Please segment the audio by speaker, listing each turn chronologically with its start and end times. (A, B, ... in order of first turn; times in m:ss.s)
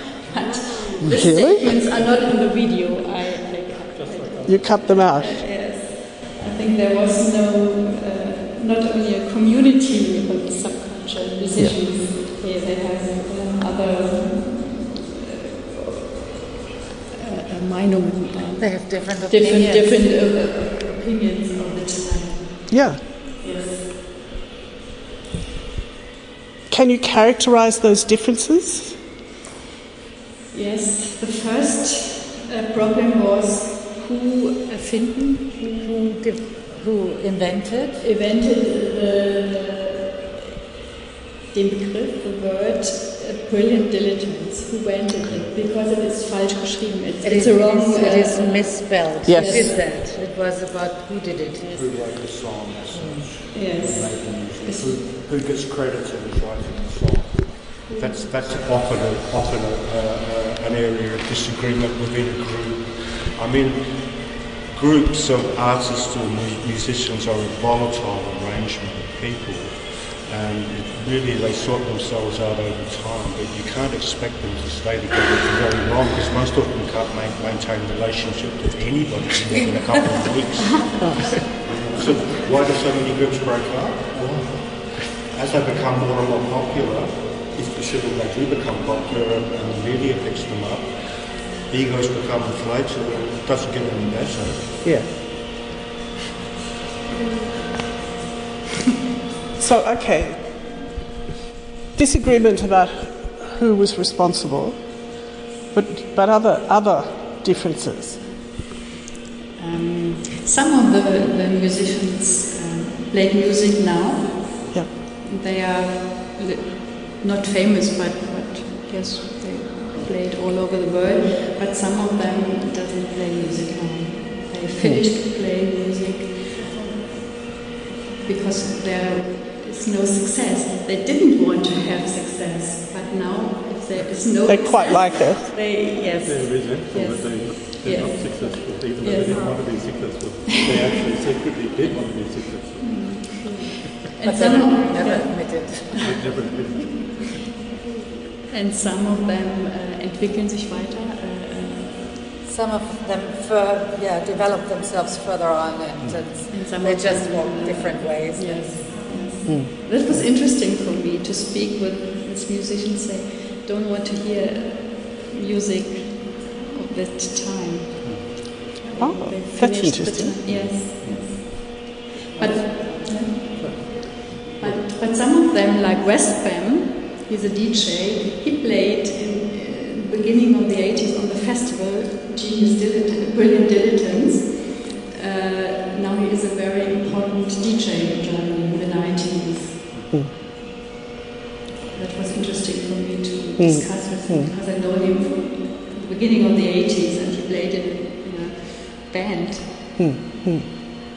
0:00.3-0:16.2 A
0:00.7-0:01.0 B
0:01.1-0:01.7 C
0:01.9-0:02.3 D
0:03.9-0:05.2 D
0:04.4-0:05.4 C
0:11.5-0:11.8 C
0:17.2-0:23.9 A
0:18.6-0:20.1 B
0:22.7-0:23.0 C
0:26.7-0:29.0 C
0:30.5-0:35.6 A
0:35.6-0:38.0 B
0:38.0-0:40.2 A
0:41.5-0:49.9 A
0:47.2-0:51.9 B
0:49.2-0:49.7 C
0:51.6-1:34.8 E
0:52.9-0:53.4 B
0:53.5-0:55.1 A
0:57.9-0:58.4 A
1:21.0-1:21.3 C
1:34.8-1:35.2 C
1:39.5-1:40.8 C
1:41.9-1:45.1 C
1:45.7-1:48.3 C
1:49.6-2:06.8 A
2:04.8-2:05.0 C
2:08.2-2:19.6 A
2:14.5-2:15.5 C
2:16.2-2:23.3 D
2:20.5-2:20.9 A
2:22.8-2:26.0 A
2:24.2-2:26.3 B
2:26.0-2:27.4 D
2:28.5-2:32.2 A
2:32.4-2:39.0 B
2:36.0-2:36.3 D
2:36.4-2:54.0 A
2:39.4-2:39.7 C
2:48.0-2:48.3 D
2:49.0-2:50.4 C
2:50.4-2:51.5 D
2:53.5-2:54.8 D
2:54.6-3:09.8 A
3:09.9-3:10.2 D
3:11.9-3:20.0 A
3:13.6-3:14.5 C
3:20.0-3:20.7 C